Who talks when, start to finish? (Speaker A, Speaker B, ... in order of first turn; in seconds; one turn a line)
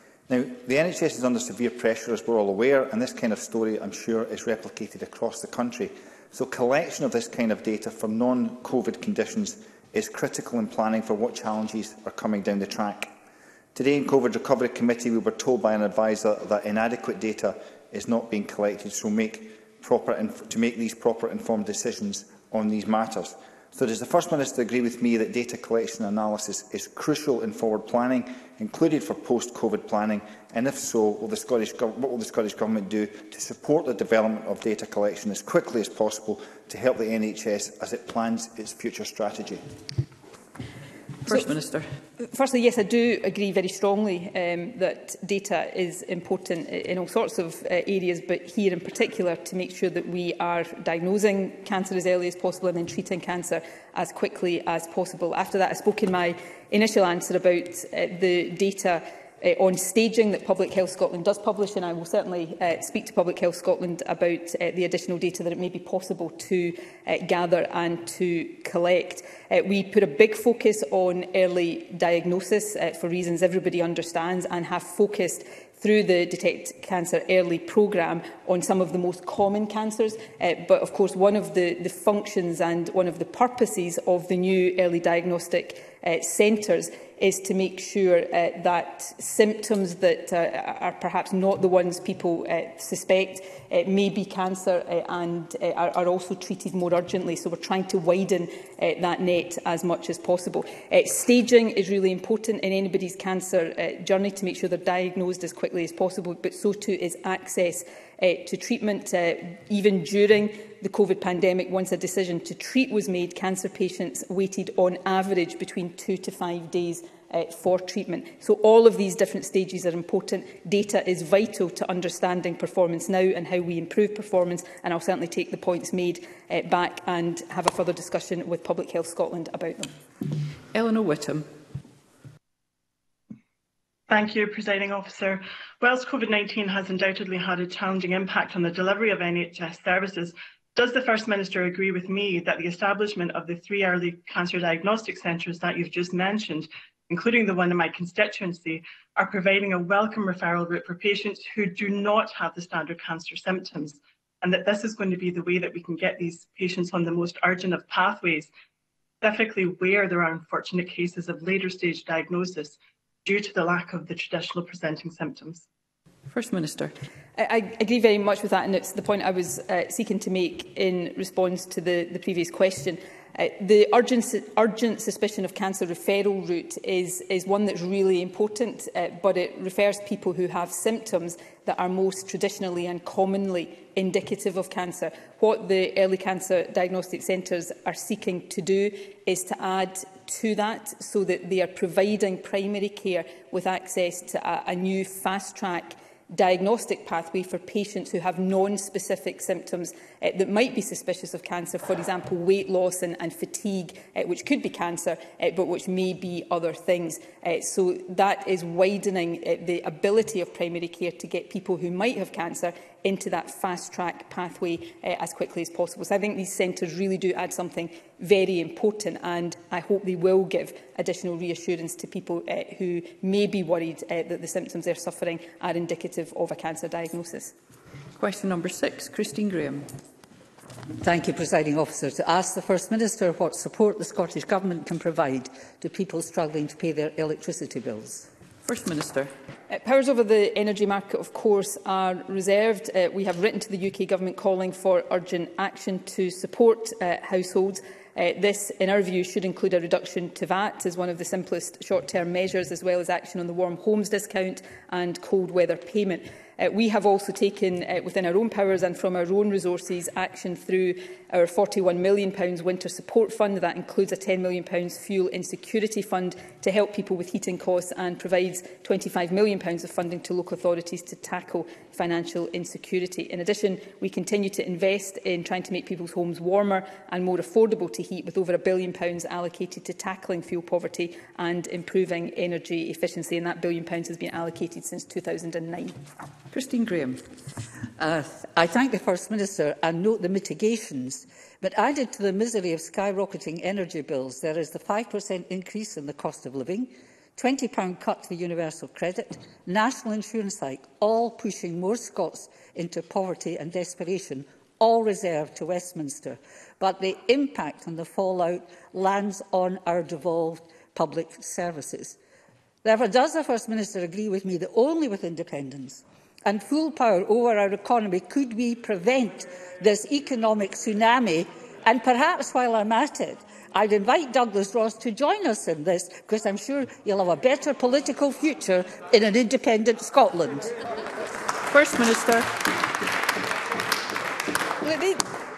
Speaker A: 0.3-13.1
Speaker A: 13.8-39.6
Speaker B: 41.3-41.9
Speaker C: 42.2-129.9
Speaker B: 130.7-131.5
Speaker D: 134.1-158.5
Speaker D: 159.2-165.7
Speaker B: 166.3-166.9
Speaker C: 167.4-227.5
Speaker B: 228.2-229.9
Speaker E: 231.0-238.3
Speaker B: 238.6-239.3
Speaker C: 239.7-286.0
Speaker B: 286.5-287.2
Speaker E: 288.0-312.2
Speaker E: 312.8-330.8
Speaker B: 331.7-332.5
Speaker C: 334.8-335.2